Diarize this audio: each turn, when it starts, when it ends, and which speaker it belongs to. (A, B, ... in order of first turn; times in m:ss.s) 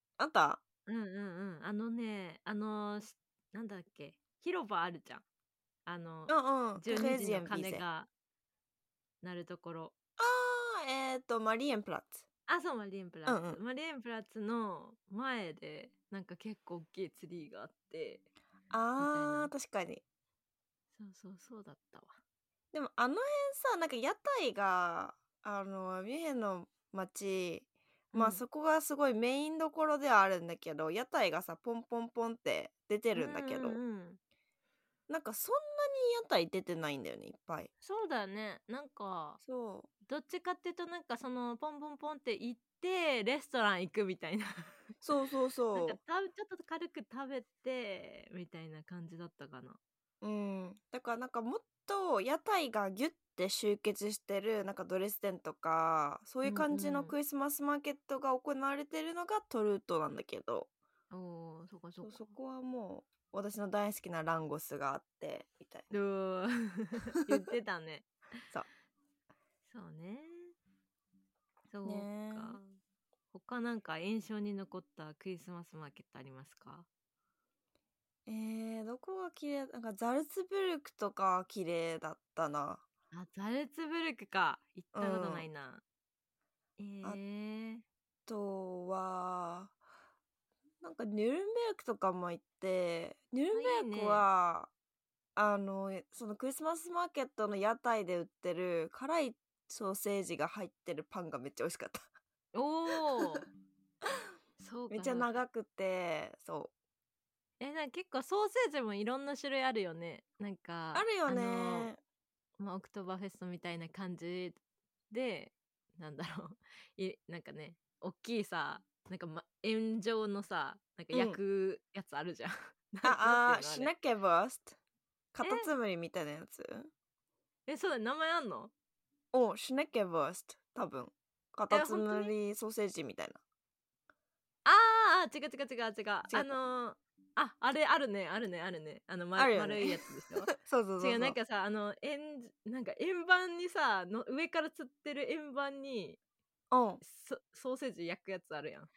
0:00.2-0:00.6 A
0:00.9-0:05.2 B
0:05.9-0:08.1 B
0:06.3-0:07.8 A
0:09.2-0:09.9 B
0:10.2-0:12.2 A
0:12.5-0:18.3 B
0:13.2-0:13.6 A
0:18.7-0:20.0 A
0:19.0-0:19.5 B
0:21.0-0:22.2 B
0:22.7-0:33.8 A
0:28.1-0:28.4 B
0:33.1-0:34.2 B
0:35.1-0:37.7 A
0:37.8-0:39.4 B
0:39.4-0:39.9 A
0:40.1-0:44.7 B
0:45.0-0:46.0 A
0:45.8-0:49.8 B
0:50.2-1:00.7 A
0:56.4-0:57.2 B
1:01.1-1:02.3 B
1:02.0-1:05.9 A
1:05.9-1:08.1 B
1:09.7-1:10.6 B
1:11.7-1:12.7 B
1:11.8-1:12.6 A
1:13.3-1:16.9 B
1:18.2-1:22.8 A
1:23.1-1:25.8 B
1:24.9-1:25.5 A
1:26.8-1:27.8 B
1:28.3-1:29.8 A
1:30.8-1:34.7 A
1:33.5-1:34.2 B
1:35.4-1:42.1 A
1:42.5-1:43.5 B
1:44.6-1:45.4 B
1:44.9-1:46.7 A
1:47.6-1:51.9 B
1:50.9-1:52.0 A
1:52.6-1:54.6 B
1:55.1-2:03.9 B
2:01.1-2:01.4 A
2:03.0-2:04.8 A
2:05.3-2:06.9 A
2:05.4-2:05.7 B
2:07.7-2:08.7 B
2:09.3-2:13.4 A
2:11.7-2:12.4 B
2:14.6-2:26.2 B
2:16.3-2:16.6 A
2:19.4-2:21.4 A
2:26.7-2:27.0 A
2:27.0-2:28.9 B